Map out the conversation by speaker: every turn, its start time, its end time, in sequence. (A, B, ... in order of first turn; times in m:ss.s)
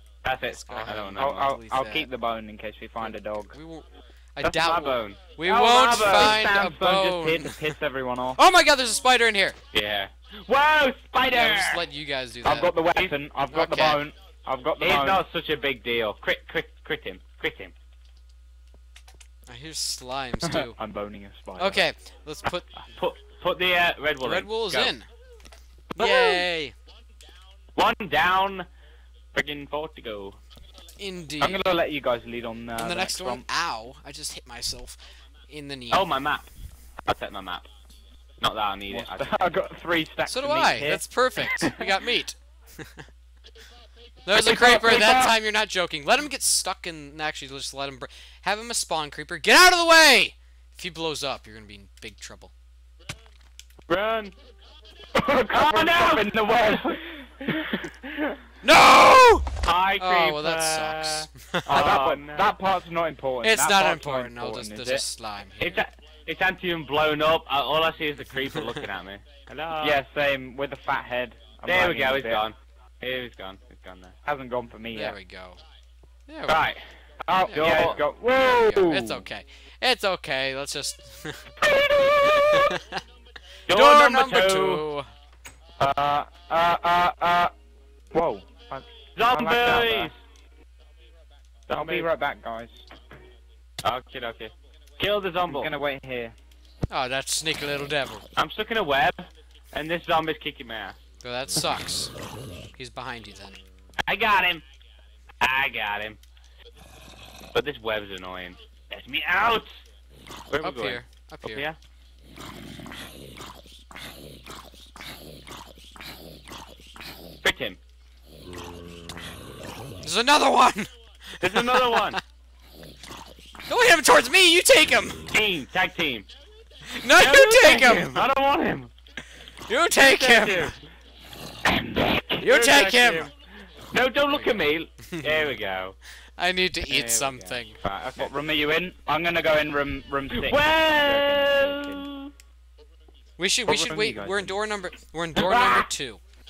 0:00.2-0:01.5 A
0:00.5-0:02.1 B
0:01.2-0:03.6 C
0:03.0-0:07.7 B
0:04.4-0:06.6 A
0:06.0-0:08.4 C
0:08.4-0:09.6 B
0:09.7-0:11.9 A
0:11.3-0:12.8 B
0:12.4-0:15.2 C
0:13.5-0:14.0 B
0:14.8-0:17.7 A
0:19.5-0:20.8 B
0:20.8-0:21.8 C
0:21.6-0:22.7 B
0:23.0-0:24.9 A
0:24.2-0:25.1 B
0:26.0-0:26.8 B
0:26.0-0:26.4 A
0:27.8-0:28.7 A
0:29.3-0:30.4 A
0:31.0-0:31.6 B
0:31.4-0:33.4 C
0:32.8-0:35.0 B
0:35.5-0:36.1 B
0:35.9-0:36.5 A
0:37.1-0:37.7 A
0:38.4-0:39.3 A
0:38.9-0:42.0 C
0:40.3-0:43.1 B
0:44.3-0:52.5 B
0:44.4-0:45.2 C
0:53.9-0:54.4 A
0:55.1-0:57.5 C
0:55.5-0:57.5 A
0:58.6-1:01.8 B
0:59.6-1:02.6 A
1:01.7-1:05.0 C
1:03.4-1:05.8 B
1:05.6-1:10.0 A
1:09.8-1:12.4 C
1:11.7-1:14.2 A
1:14.2-1:15.2 C
1:14.9-1:15.6 B
1:16.3-1:16.6 B
1:16.5-1:16.8 A
1:17.3-1:19.2 C
1:17.5-1:21.6 B
1:17.5-1:18.0 A
1:21.8-1:22.5 A
1:22.2-1:23.0 B
1:23.7-1:24.9 A
1:23.7-1:25.1 B
1:25.8-1:27.5 C
1:28.1-1:30.1 C
1:29.2-1:30.2 A
1:31.7-1:32.1 A
1:31.8-1:32.8 C
1:33.8-1:35.7 A
1:35.5-1:36.4 C
1:36.9-1:38.2 B
1:38.4-1:41.0 A
1:41.2-1:42.1 B
1:42.7-1:43.6 B
1:44.1-1:44.6 A
1:45.4-1:46.2 A
1:47.5-1:49.7 A
1:50.5-1:51.8 A
1:50.6-1:51.7 B
1:57.4-1:57.8 A
2:00.0-2:02.2 B
2:01.4-2:02.2 A
2:03.7-2:05.3 B
2:05.3-2:06.3 A
2:06.9-2:08.3 B
2:07.2-2:08.9 A
2:09.7-2:10.8 B
2:10.0-2:10.8 A
2:11.7-2:12.0 C
2:11.9-2:16.0 A
2:12.4-2:13.3 B
2:14.3-2:15.5 B
2:16.4-2:17.8 B
2:16.9-2:18.3 A
2:18.2-2:22.1 C
2:20.3-2:22.3 A
2:23.4-2:26.2 B
2:23.7-2:24.6 C
2:25.4-2:25.9 A